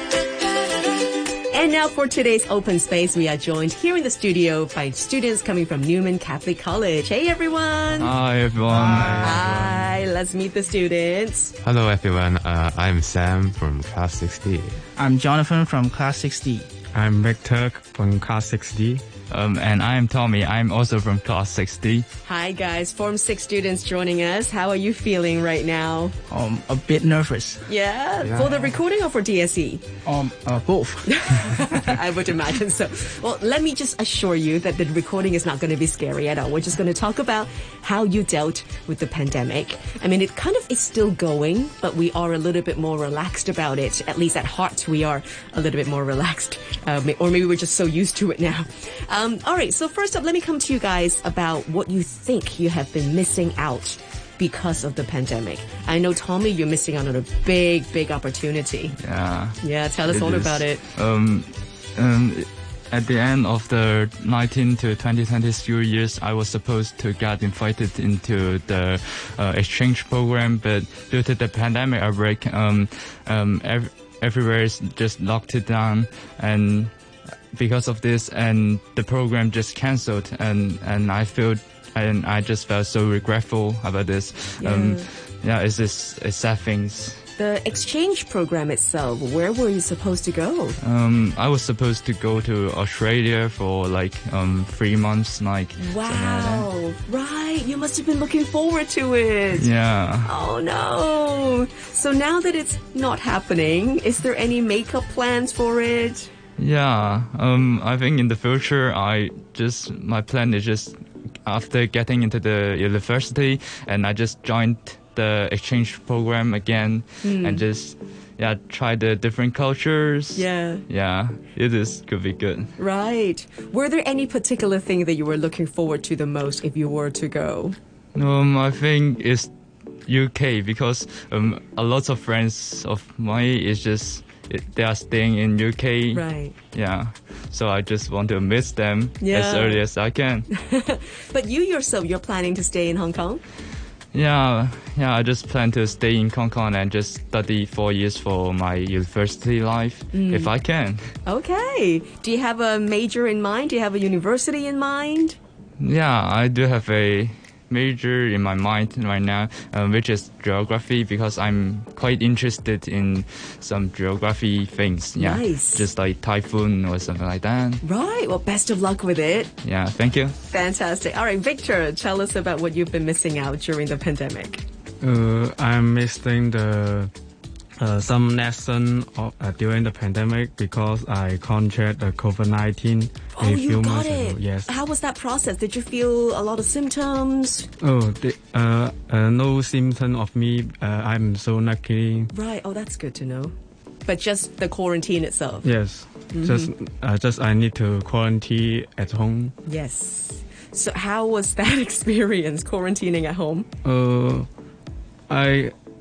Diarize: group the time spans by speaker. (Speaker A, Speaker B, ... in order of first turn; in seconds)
Speaker A: 1.5-8.1, 9.2-11.5, 22.2-26.1, 27.6-29.8, 31.1-58.9, 59.6-60.8, 84.6-85.0, 87.4-90.8, 95.8-99.7, 100.2-106.3, 117.2-117.6, 120.3-120.8, 122.8-127.8, 136.1-136.5, 139.2-139.8, 140.5-143.4, 150.1-150.5, 151.2-155.4, 165.2-165.9, 167.8-169.5, 170.5-174.6, 183.3-187.7, 192.3-193.5, 194.0-195.7, 196.3-196.7, 199.6-203.7
Speaker B: 8.0-9.4, 19.3-22.1, 59.0-59.5, 60.1-76.9, 77.5-87.2, 90.8-96.7, 99.5-100.3, 106.6-122.7, 128.1-129.5, 130.1-140.5, 144.1-151.0, 155.8-167.8, 169.6-170.3
Speaker C: 8.7-9.3, 14.9-16.7, 26.3-27.6, 30.0-31.8
Speaker D: 8.7-9.9, 16.9-19.0, 175.0-177.1, 177.8-184.7, 187.8-192.3, 195.6-199.5, 203.8-204.5, 205.3-205.7
Speaker E: 11.6-14.8, 28.2-28.6